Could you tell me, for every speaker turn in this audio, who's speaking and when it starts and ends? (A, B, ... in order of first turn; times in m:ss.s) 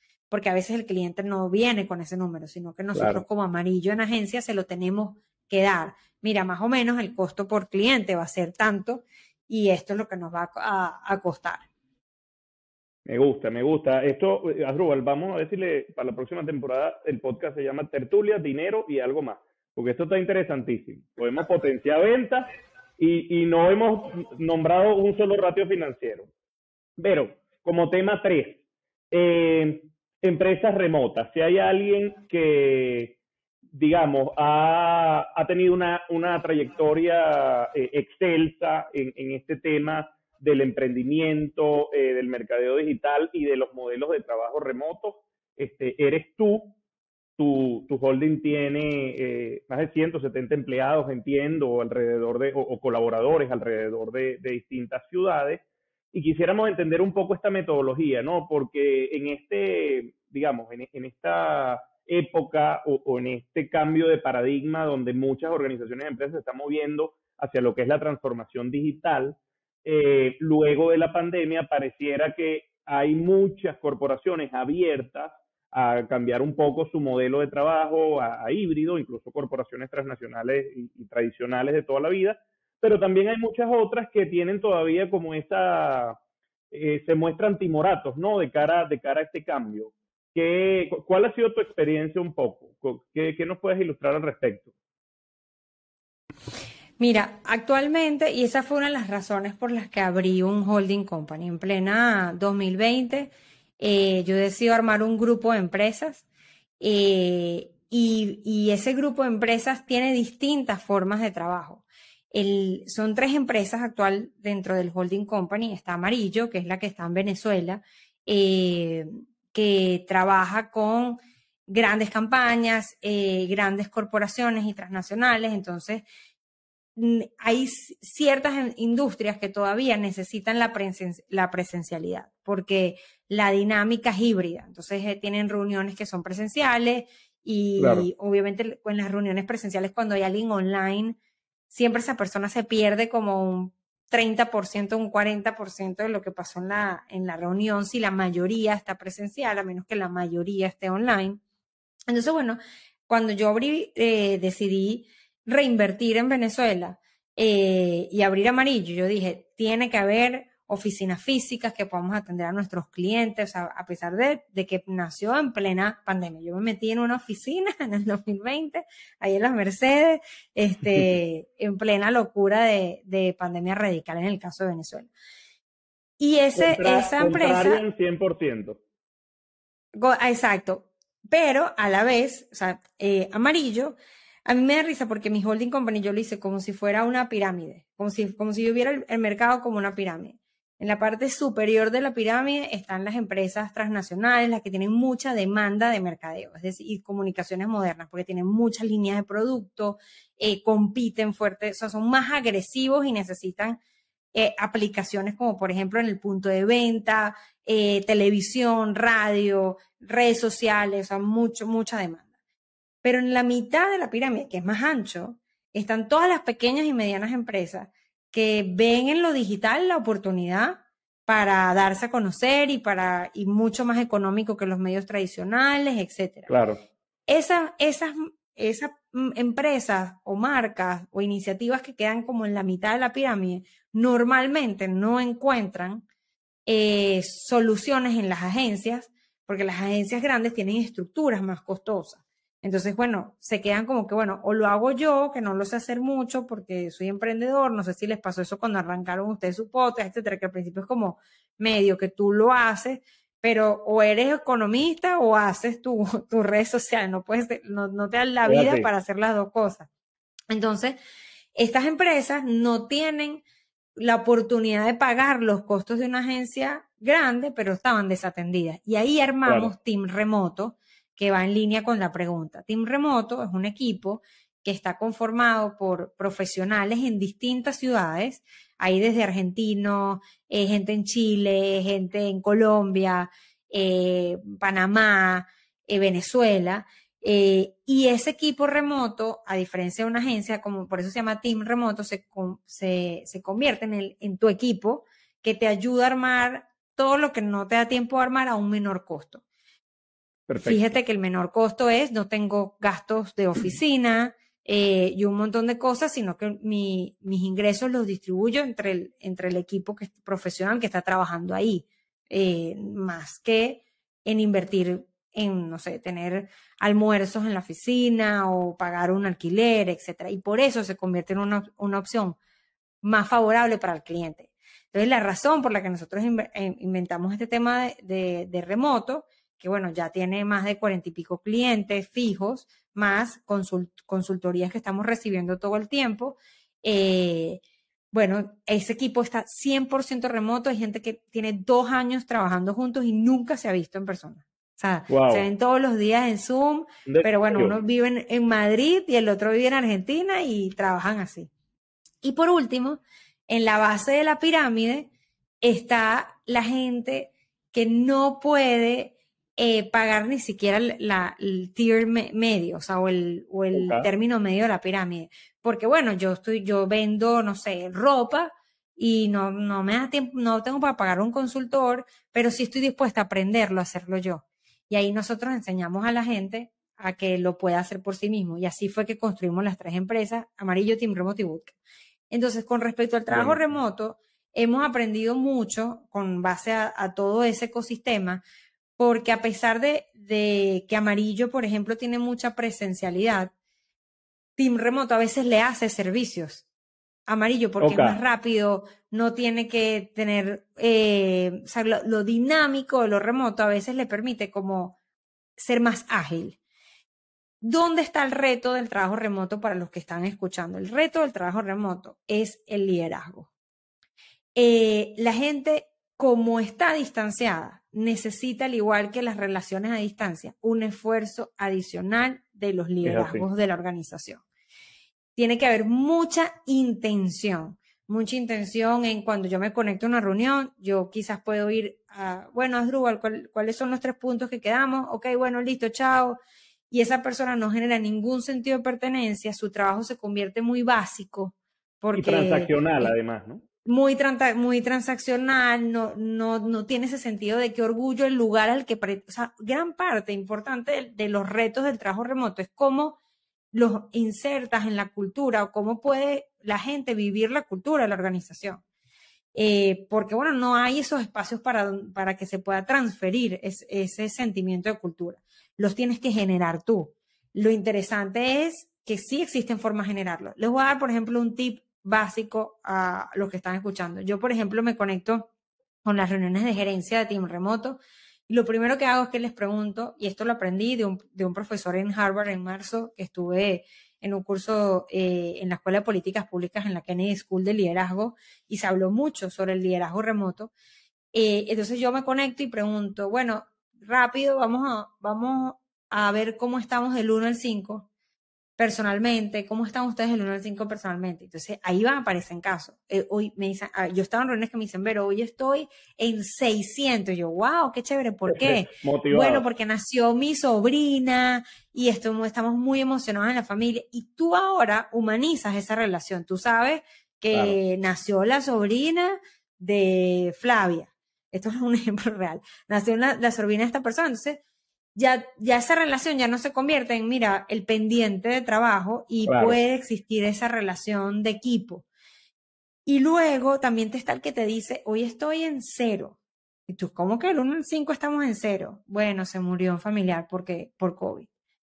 0:00.3-0:11.7 A
0:03.0-0:03.2 B
0:13.1-0:26.3 B
0:27.0-0:28.6 B
0:29.1-0:33.2 B
0:33.7-0:46.8 B
0:47.4-1:26.2 B
1:26.7-1:34.7 B
1:37.0-1:46.2 A
1:46.8-2:06.0 A
2:07.0-2:21.2 A
2:17.8-2:18.1 B
2:21.7-2:31.4 A
2:32.1-2:32.6 A
2:33.1-2:55.1 A
2:56.2-2:57.8 A
2:56.6-2:58.8 B
3:00.0-3:04.0 A
3:04.5-3:23.8 A
3:24.3-3:32.2 A
3:33.0-3:46.5 A
3:46.5-3:46.8 B
3:47.3-3:56.0 A
3:56.7-4:19.9 A
4:18.4-4:18.9 B
4:20.5-4:21.0 A
4:21.6-4:23.4 A
4:24.0-4:59.4 A
4:29.5-4:29.7 B
5:00.5-5:00.9 B
5:00.6-5:22.4 A
5:23.0-5:37.6 A
5:38.1-5:51.5 A
5:45.1-5:45.5 B
5:47.1-5:47.8 B
5:52.2-5:55.1 A
5:55.6-6:21.8 A
6:03.7-6:04.1 B
6:22.3-6:28.4 A
6:23.3-6:23.7 B
6:29.0-6:33.5 A
6:34.6-6:36.6 A
6:37.3-6:45.0 A
6:37.8-6:38.2 B
6:45.6-6:46.6 A
6:47.6-6:53.5 A
6:54.6-7:04.4 A
7:03.0-7:03.4 B
7:05.4-7:16.4 A
7:16.9-7:23.1 A
7:22.1-7:23.6 B
7:23.8-7:33.2 A
7:33.7-7:38.8 A
7:39.6-7:55.5 A
7:56.0-8:10.7 A
8:11.3-8:18.1 A
8:18.8-8:44.6 A
8:28.5-8:29.6 B
8:37.5-8:37.8 B
8:45.2-8:52.1 A
8:49.5-8:49.8 B
8:53.1-8:56.4 A
8:56.9-9:01.5 A